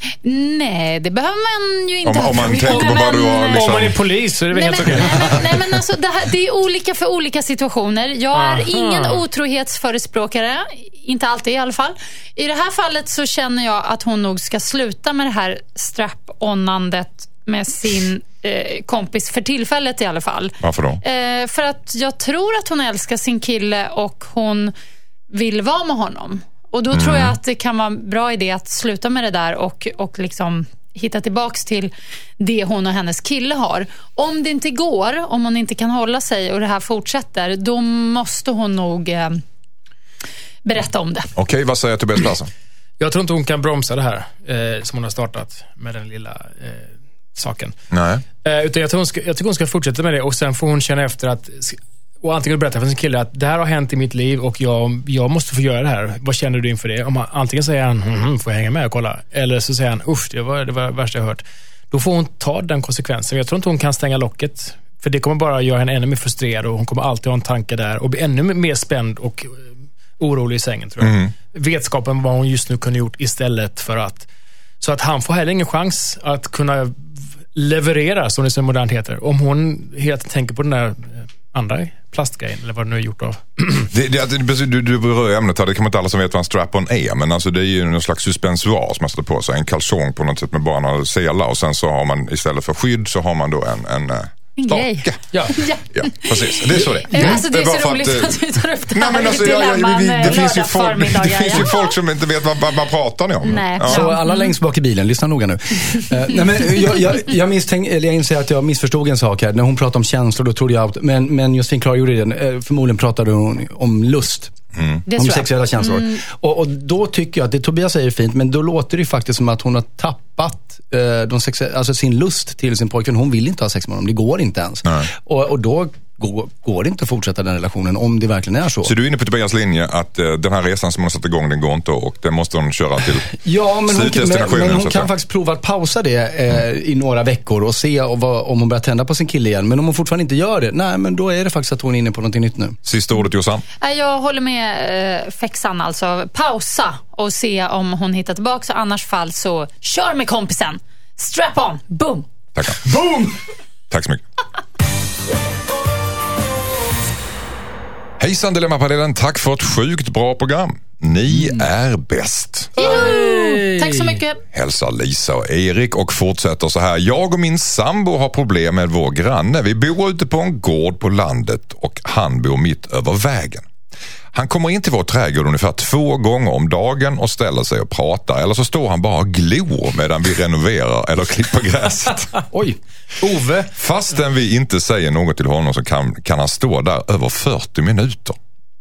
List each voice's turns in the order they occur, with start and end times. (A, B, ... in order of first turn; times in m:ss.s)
0:00.2-0:03.9 A
0:02.0-0:04.0 B
0:02.5-0:05.6 C
0:04.5-0:24.7 A
0:08.3-0:09.2 C
0:20.6-0:21.0 B
0:25.3-0:39.4 A
0:26.9-0:27.4 B
0:40.6-0:41.3 A
0:41.4-0:42.5 B
0:43.0-0:47.8 C
0:47.9-0:48.2 B
0:48.4-1:14.3 C
1:11.0-1:11.3 B
1:14.8-1:23.9 C
1:23.9-1:44.0 B
1:34.6-1:42.0 A
1:35.3-1:35.6 C
1:43.4-1:44.5 A
1:43.8-1:54.5 D
1:54.8-1:55.0 B
1:55.1-1:56.2 A
1:55.1-2:08.9 D
2:08.8-2:13.4 B
2:13.3-2:22.8 D
2:13.9-2:15.1 B
2:22.8-2:23.6 B
2:23.8-2:32.3 A
2:32.6-2:32.9 B
2:32.8-2:33.4 D
2:33.9-2:34.2 B
2:38.2-2:42.8 B
2:42.8-2:44.4 A
2:42.8-2:44.2 C
2:44.5-2:53.7 B
2:54.3-3:02.3 B
3:02.6-3:03.7 C
3:03.7-3:08.4 B